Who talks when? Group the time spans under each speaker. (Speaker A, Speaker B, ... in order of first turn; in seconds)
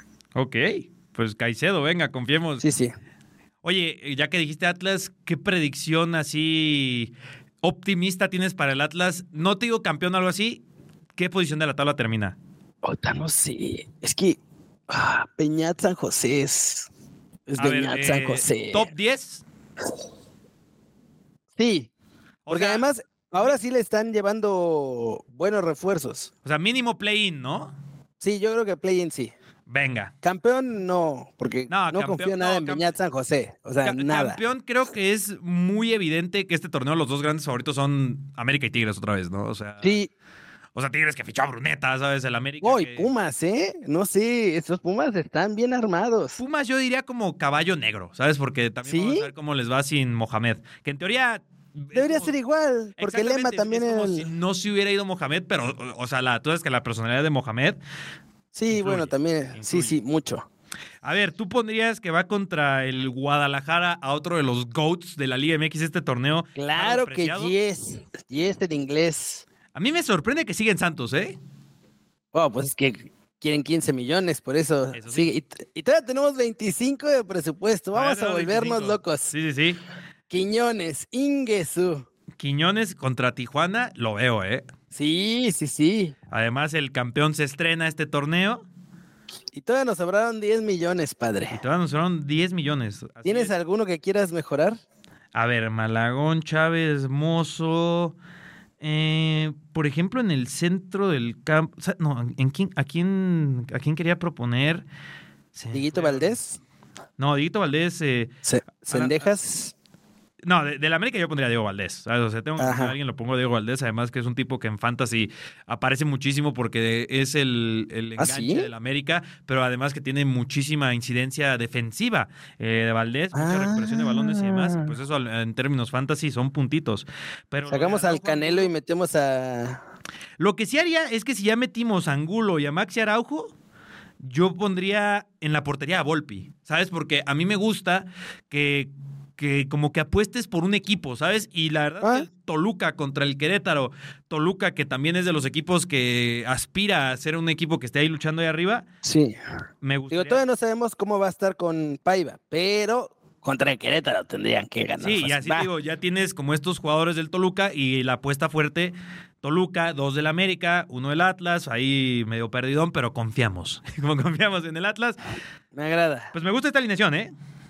Speaker A: 0.3-2.6, 3.6-10.6, 11.2-12.4, 17.6-19.4, 22.5-22.9, 26.4-27.7, 29.7-30.1, 31.7-32.9, 33.8-40.0, 40.8-43.1, 46.4-52.3, 53.0-57.8, 58.7-60.0, 61.0-67.5, 69.7-71.4, 74.9-75.3, 77.9-79.8, 82.4-84.7, 86.3-88.7, 91.5-93.5, 95.3-98.2, 98.8-104.8, 105.5-106.3, 107.2-108.3, 108.9-109.3, 110.4-128.7, 130.4-133.5, 134.2-148.9, 149.8-150.4, 155.0-165.2, 166.3-167.3
Speaker B: 2.6-2.9, 12.8-14.4, 14.9-16.9, 17.5-18.9, 21.6-21.9, 22.5-26.3, 28.2-29.3, 30.2-34.4, 39.8-40.1, 42.6-46.4, 48.9-49.3, 51.9-54.3, 58.5-60.5, 66.6-69.5, 72.3-79.3, 80.3-82.1, 84.9-86.2, 89.5-91.6, 93.2-94.8, 105.7-106.6, 108.4-109.7, 112.6-113.0, 118.2-118.7, 123.3-124.9, 127.7-129.8, 142.0-142.3, 149.0-149.4, 150.1-155.7, 165.7-166.3